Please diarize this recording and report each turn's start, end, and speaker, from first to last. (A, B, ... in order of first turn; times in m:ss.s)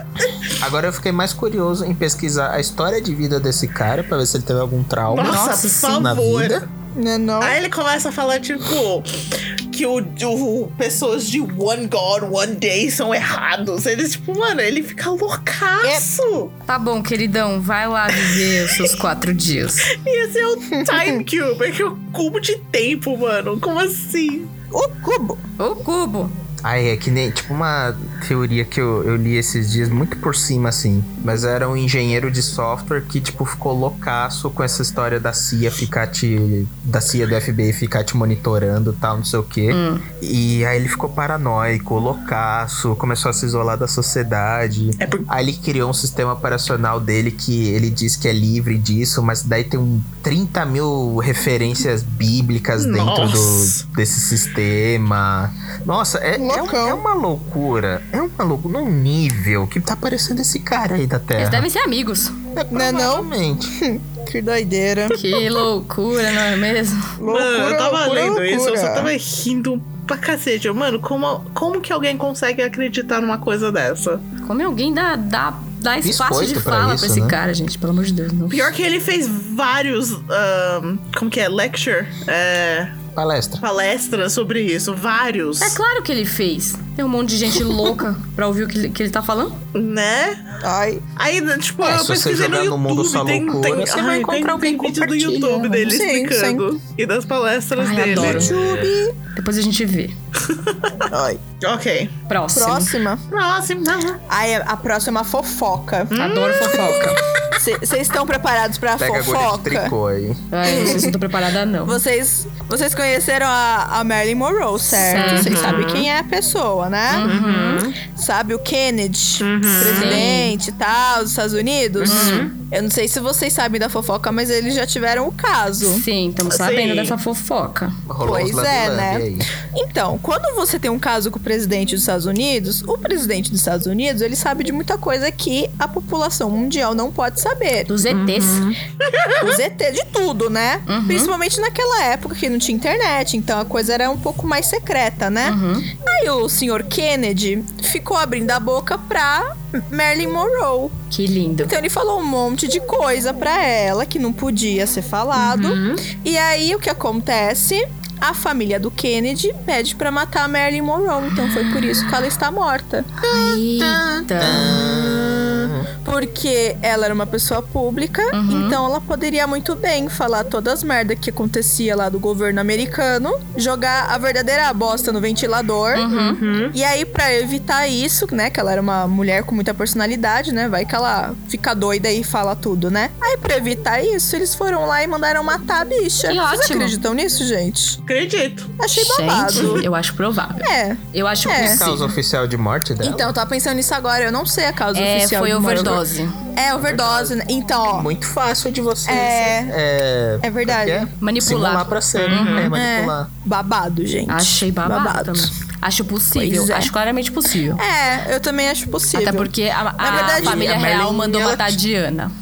0:00.6-0:06.6 A
0:05.1-0:06.6 B
0:05.2-0:06.0 C
0:07.0-0:07.6 D
0:07.4-0:16.5 B
0:16.7-0:19.9 C
0:18.2-0:18.8 B
0:19.9-0:24.5 B
0:20.7-0:21.2 D
0:24.7-0:25.4 D
0:25.6-0:26.4 C
0:26.6-1:01.7 A
0:39.7-0:40.0 C
0:45.0-0:45.3 B
0:52.8-0:53.8 B
0:56.4-0:57.0 D
1:01.4-1:02.4 C
1:02.6-1:03.7 A
1:02.7-1:05.2 D
1:05.1-1:07.2 C
1:07.2-1:09.1 D
1:07.3-1:14.2 B
1:14.4-1:18.7 C
1:16.0-1:17.4 A
1:18.5-1:23.0 B
1:23.2-1:23.6 A
1:23.6-1:25.8 B
1:25.6-1:29.6 C
1:29.8-1:30.4 B
1:30.6-1:31.0 D
1:31.2-1:38.5 B
1:31.8-1:35.9 A
1:35.8-1:36.6 D
1:37.8-1:38.5 C
1:38.1-1:39.0 A
1:38.2-1:39.2 D
1:39.4-1:40.2 C
1:40.5-1:41.1 B
1:41.1-1:41.4 D
1:41.6-1:42.2 B
1:42.3-1:42.9 C
1:42.5-1:43.2 D
1:43.3-1:44.2 B
1:44.3-1:46.1 D
1:46.1-1:47.1 B
1:46.2-1:47.2 C
1:47.5-1:49.9 D
1:49.0-1:51.0 A
1:50.5-1:52.0 C
1:50.6-1:51.1 D
1:51.8-1:57.3 D
1:55.1-1:55.7 C
1:55.2-1:56.1 B
1:57.1-1:57.9 C
1:57.2-1:58.0 B
1:58.0-2:06.0 D
1:59.4-2:00.3 B
1:59.8-2:00.6 C
2:02.0-2:02.5 B
2:02.1-2:02.5 C
2:05.8-2:08.0 C
2:06.5-2:07.2 B
2:08.1-2:09.5 A
2:08.2-2:18.6 D
2:17.9-2:18.7 C
2:18.1-2:19.5 B
2:19.4-2:31.0 D
2:20.9-2:21.3 C
2:25.4-2:25.9 C
2:31.1-2:31.8 C
2:31.6-2:43.1 D
2:35.4-2:36.0 B
2:41.6-2:42.0 C
2:43.2-2:45.9 A
2:43.3-2:45.0 C
2:44.6-2:56.2 D
2:48.3-2:48.8 C
2:56.0-2:56.4 C
2:56.1-2:56.8 B
2:56.7-3:08.0 D
3:06.3-3:07.0 C
3:08.1-3:08.8 B
3:08.8-3:09.9 D
3:08.9-3:12.1 C
3:10.6-3:11.9 D
3:11.6-3:13.3 A
3:13.0-3:18.1 D
3:14.9-3:16.4 C
3:16.8-3:17.3 A
3:17.9-3:23.3 A
3:19.1-3:19.8 D
3:20.4-3:21.1 D
3:21.2-3:22.7 C
3:22.2-3:22.7 B
3:22.7-3:25.5 D
3:24.3-3:27.8 C
3:26.3-3:26.9 D
3:27.8-3:31.0 D
3:29.1-3:32.3 C
3:30.1-3:31.8 A